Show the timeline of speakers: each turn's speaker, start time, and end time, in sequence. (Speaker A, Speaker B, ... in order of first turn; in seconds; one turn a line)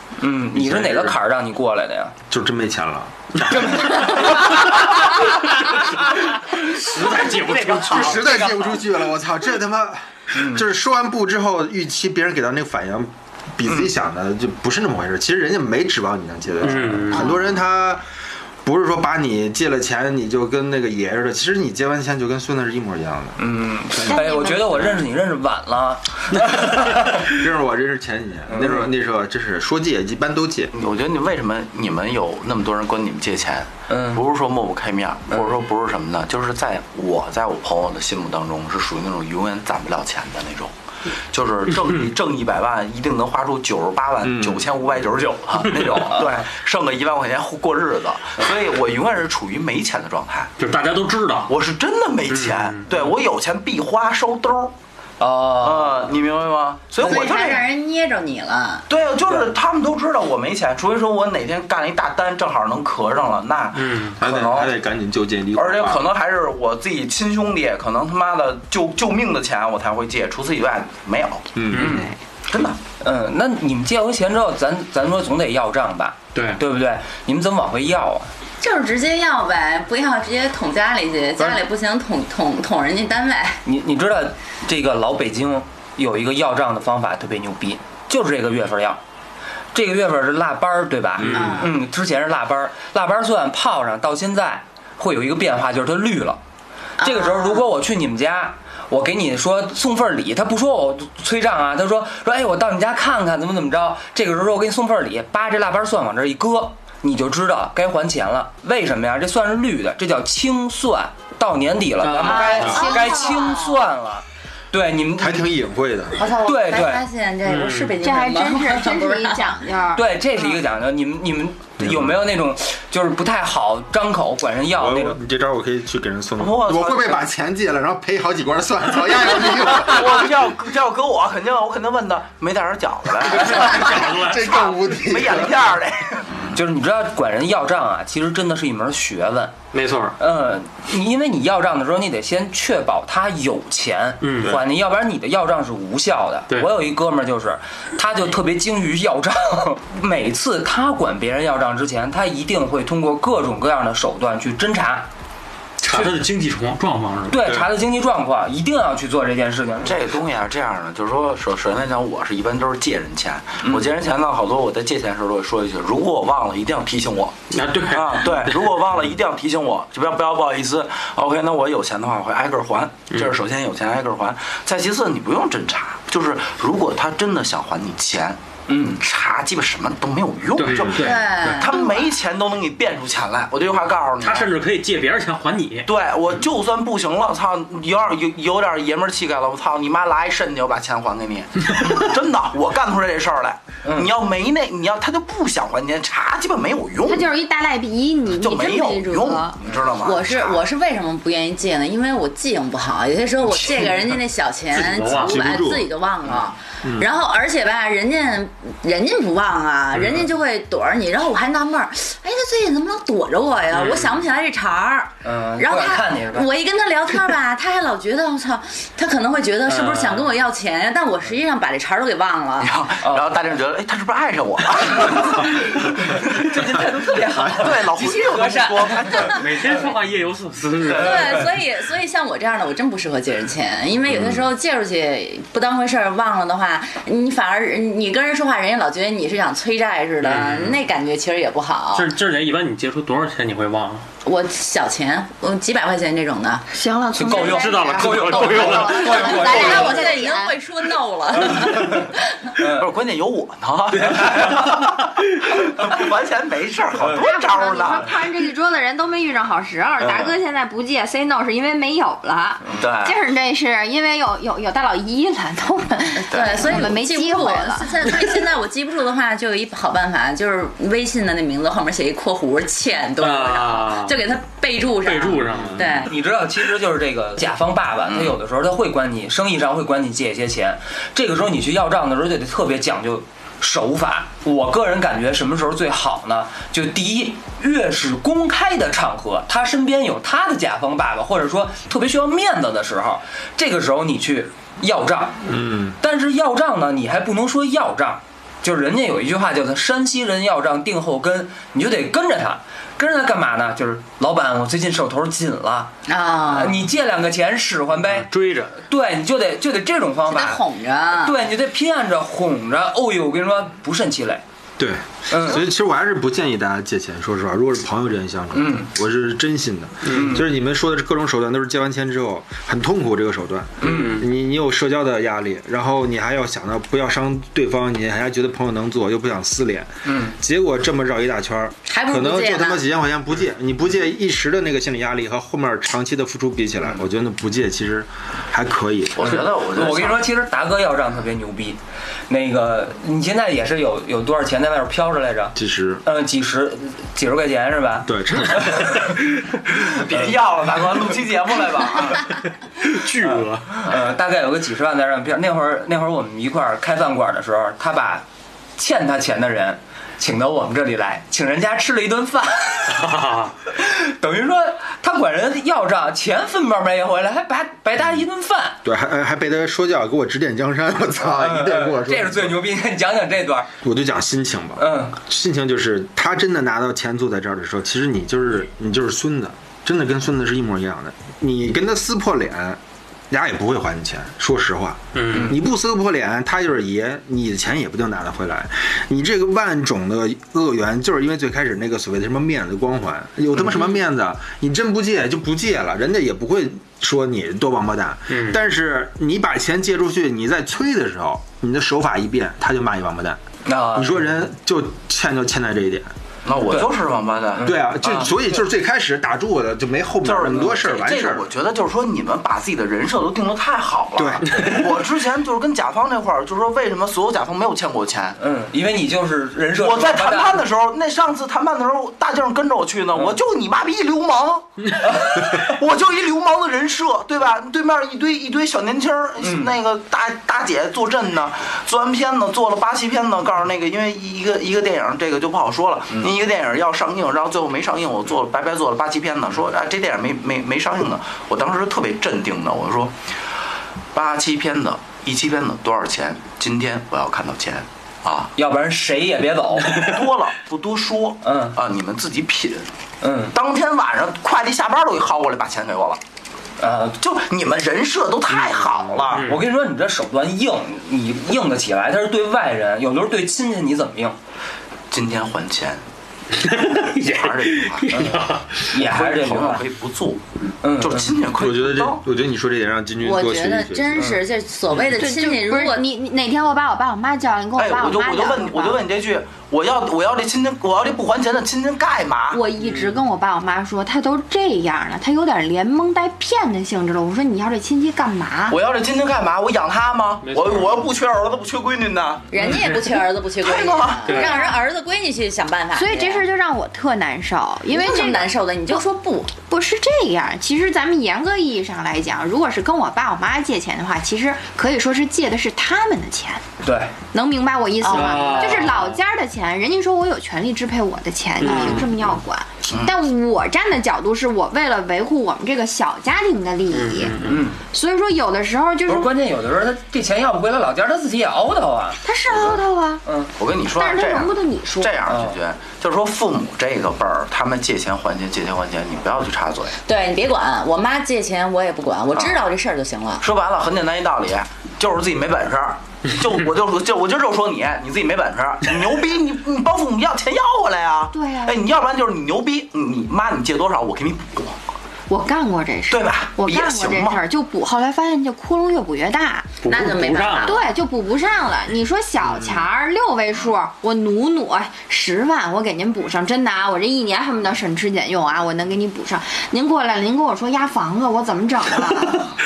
Speaker A: 0.2-2.1
Speaker B: 0.5-1.2
Speaker B: 2.3-4.3
Speaker A: 3.5-8.6
Speaker C: 6.5-8.4
Speaker B: 7.8-18.0
Speaker A: 10.3-10.6
Speaker C: 16.6-17.3
Speaker D: 17.1-17.4
Speaker B: 18.6-23.4
Speaker A: 23.4-27.3
Speaker D: 24.1-25.0
Speaker B: 27.1-30.7
Speaker A: 28.5-28.9
Speaker E: 30.7-40.7
Speaker A: 33.9-34.2
Speaker E: 41.3-50.5
Speaker B: 44.2-44.7
Speaker A: 46.1-46.4
Speaker C: 50.6-51.5
Speaker E: 51.5-54.7
Speaker C: 52.3-52.9
Speaker A: 55.2-56.1
Speaker E: 55.6-57.6
Speaker F: 57.0-58.8
Speaker E: 58.9-64.7
Speaker C: 63.7-64.2
Speaker B: 64.2-66.1
Speaker E: 65.5-71.6
Speaker B: 71.5-72.1
Speaker C: 71.7-72.1
Speaker A: 71.7-72.1
Speaker E: 72.5-72.8
Speaker A: 73.0-78.3
Speaker C: 76.3-76.6
Speaker F: 78.6-83.6
Speaker A: 83.7-89.0
Speaker A: 89.7-96.4
Speaker F: 91.3-91.7
Speaker F: 97.0-97.7
Speaker A: 97.0-115.5
Speaker C: 112.0-112.8
Speaker D: 112.2-113.5
Speaker F: 112.2-113.8
Speaker B: 115.2-116.2
Speaker F: 116.2-119.5
Speaker A: 116.4-117.0
Speaker C: 117.5-118.0
Speaker D: 118.0-120.1
Speaker A: 119.9-125.2
Speaker B: 121.8-122.2
Speaker B: 124.8-130.2
Speaker E: 126.4-127.2
Speaker E: 129.7-136.3
Speaker C: 133.3-134.5
Speaker B: 133.5-135.7
Speaker A: 136.5-139.5
Speaker C: 139.7-140.2
Speaker A: 140.2-155.1
Speaker C: 144.2-144.6
Speaker C: 155.8-157.5
Speaker A: 155.9-156.2
Speaker A: 157.3-160.0
Speaker E: 159.8-178.4
Speaker A: 163.6-163.9
Speaker C: 167.5-168.8
Speaker A: 178.7-179.0
Speaker E: 178.9-184.5
Speaker C: 180.6-181.7
Speaker F: 181.0-182.1
Speaker C: 184.2-185.9
Speaker E: 185.9-197.3
Speaker A: 193.8-194.1
Speaker D: 197.1-199.6
Speaker E: 198.3-200.6
Speaker F: 200.0-222.7
Speaker C: 204.8-205.4
Speaker B: 204.8-205.9
Speaker C: 213.7-214.1
Speaker A: 215.2-216.5
Speaker C: 219.7-220.3
Speaker E: 222.6-226.5
Speaker A: 223.0-223.3
Speaker A: 225.0-225.6
Speaker A: 226.1-229.9
Speaker E: 227.4-229.5
Speaker C: 229.2-231.5
Speaker F: 230.9-242.1
Speaker E: 230.9-231.3
Speaker A: 231.1-231.5
Speaker C: 240.2-240.8
Speaker C: 241.9-244.1
Speaker F: 244.2-246.7
Speaker D: 246.7-250.6
Speaker A: 247.1-250.2
Speaker C: 247.2-249.3
Speaker F: 249.2-252.2
Speaker A: 251.4-252.9
Speaker E: 252.6-258.2
Speaker D: 257.1-268.4
Speaker A: 260.0-260.4
Speaker E: 262.7-263.2
Speaker F: 266.1-276.1
Speaker E: 266.3-266.9
Speaker C: 273.2-274.2
Speaker C: 275.1-275.9
Speaker A: 275.8-295.4
Speaker E: 278.1-278.4
Speaker B: 295.5-295.9
Speaker A: 296.0-305.9
Speaker F: 306.1-306.8
Speaker A: 306.4-308.3
Speaker C: 308.3-308.8
Speaker A: 308.8-310.6
Speaker F: 310.3-311.4
Speaker A: 311.1-314.4
Speaker B: 314.8-339.4
Speaker A: 315.3-315.6
Speaker A: 318.5-318.9
Speaker C: 320.1-320.4
Speaker A: 320.1-320.5
Speaker A: 323.8-324.2
Speaker C: 323.8-324.3
Speaker A: 330.1-330.4
Speaker F: 331.9-332.8
Speaker E: 339.2-340.3
Speaker A: 339.2-349.1
Speaker B: 345.6-346.0
Speaker B: 348.1-349.1
Speaker E: 350.0-352.3
Speaker C: 352.8-353.8
Speaker A: 353.2-358.2
Speaker A: 358.8-363.1
Speaker C: 362.9-363.6
Speaker A: 363.7-368.8
Speaker B: 368.8-372.6
Speaker A: 371.3-373.7
Speaker B: 373.8-403.4
Speaker A: 374.8-375.2
Speaker C: 385.1-385.6
Speaker C: 398.3-398.6
Speaker A: 403.6-404.2
Speaker B: 403.9-406.1
Speaker E: 406.4-407.8
Speaker A: 407.6-408.4
Speaker B: 407.6-411.5
Speaker E: 410.2-418.4
Speaker A: 410.6-410.8
Speaker B: 414.2-414.7
Speaker A: 418.4-420.6
Speaker E: 419.7-443.1
Speaker A: 425.0-425.7
Speaker A: 429.4-429.7
Speaker E: 444.1-448.5
Speaker A: 448.6-450.1
Speaker E: 449.9-452.9
Speaker A: 451.4-451.8
Speaker A: 453.2-453.6
Speaker E: 453.5-456.2
Speaker A: 456.8-457.2
Speaker E: 457.2-459.5
Speaker C: 458.5-459.6
Speaker A: 459.5-464.4
Speaker E: 465.1-466.0
Speaker C: 466.6-468.9
Speaker E: 467.2-468.4
Speaker A: 468.1-469.9
Speaker E: 469.0-470.4
Speaker A: 470.8-471.4
Speaker E: 471.0-472.2
Speaker B: 471.6-474.3
Speaker F: 473.2-476.1
Speaker D: 475.0-479.0
Speaker E: 477.8-482.6
Speaker D: 482.5-488.8
Speaker C: 482.8-483.2
Speaker E: 488.7-492.5
Speaker C: 490.4-491.0
Speaker F: 492.5-496.5
Speaker C: 492.6-493.1
Speaker E: 493.6-494.4
Speaker C: 494.3-494.6
Speaker D: 494.3-494.8
Speaker D: 495.9-499.0
Speaker F: 497.9-499.5
Speaker D: 499.7-506.6
Speaker A: 506.8-507.1
Speaker D: 507.3-517.4
Speaker F: 508.0-508.9
Speaker C: 508.1-509.2
Speaker C: 511.6-512.2
Speaker A: 511.7-512.0
Speaker E: 512.9-513.1
Speaker C: 516.9-517.7
Speaker A: 517.5-517.8
Speaker D: 517.9-519.3
Speaker A: 519.1-523.5
Speaker D: 522.2-523.2
Speaker E: 523.6-530.0
Speaker D: 524.0-525.2
Speaker A: 525.3-525.6
Speaker F: 530.0-533.4
Speaker E: 532.4-532.6
Speaker E: 533.4-544.8
Speaker D: 541.3-541.8
Speaker D: 545.3-562.5
Speaker E: 546.1-547.4
Speaker C: 549.8-550.8
Speaker F: 549.8-550.9
Speaker C: 552.4-552.8